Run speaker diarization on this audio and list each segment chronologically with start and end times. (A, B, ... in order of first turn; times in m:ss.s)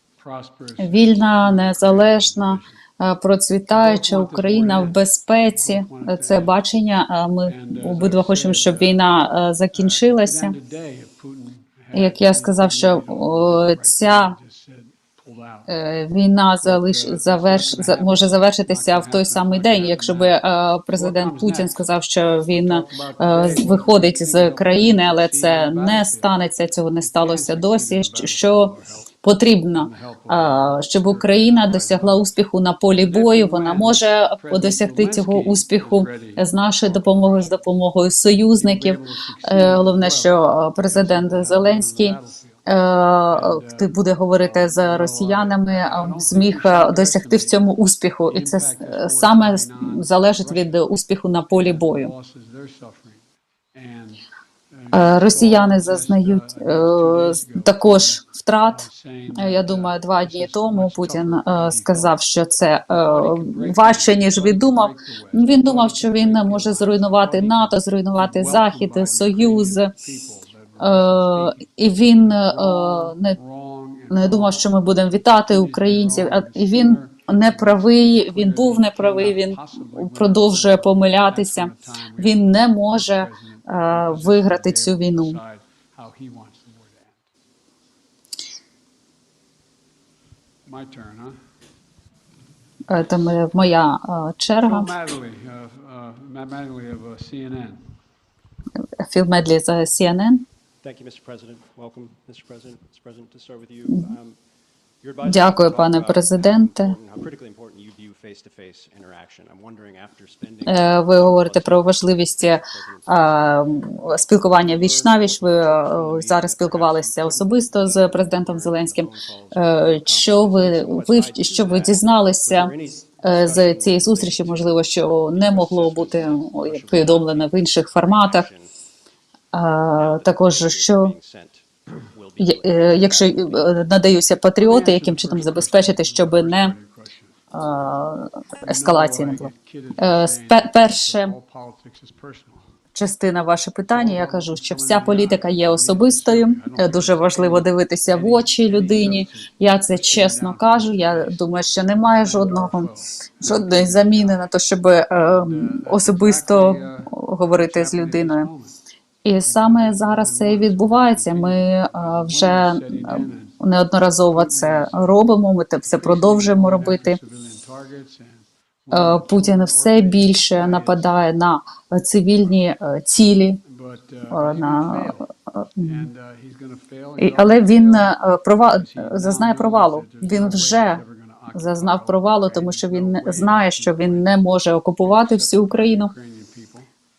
0:00.2-0:02.7 A
0:00.8-0:10.6 B
0:03.7-0:06.6 A
0:07.4-0:09.0 A
0:09.7-0:15.7 A
0:11.9-0:14.4 B
0:15.7-0:52.1 B
0:16.6-0:20.4 A
0:20.9-0:21.7 A
0:22.5-0:26.3 A
0:27.0-0:29.1 A
0:29.8-0:32.3 A
0:33.0-0:37.6 A
0:38.5-0:42.6 A
0:43.3-0:47.6 A
0:48.3-0:50.8 A
0:51.5-0:53.2 A
0:53.8-0:58.2 A
0:54.9-1:10.0 B
0:58.7-1:02.1 A
1:03.0-1:27.2 A
1:10.8-1:13.4 B
1:14.1-1:25.4 B
1:30.7-1:31.4 A
1:32.9-1:35.0 B
1:34.6-1:37.8 A
1:39.0-1:40.5 B
1:40.8-1:44.4 C
1:45.0-1:53.4 C
1:45.2-1:47.0 B
1:50.7-2:08.5 B
1:54.0-2:08.7 C
2:09.5-2:11.2 B
2:10.0-2:14.0 C
2:12.4-2:16.7 B
2:14.6-2:17.3 A
2:17.5-2:21.4 B
2:18.7-2:22.7 A
2:23.0-2:38.5 B
2:23.9-2:34.4 A
2:35.3-2:38.8 A
2:39.2-2:47.2 B
2:39.4-2:43.6 A
2:44.4-2:45.0 A
2:45.9-2:51.1 A
2:48.9-2:53.6 B
2:53.7-2:55.2 A
2:54.3-2:56.1 B
2:55.8-2:58.1 A
2:57.2-3:06.1 B
2:58.8-3:04.4 A
3:05.0-3:06.9 A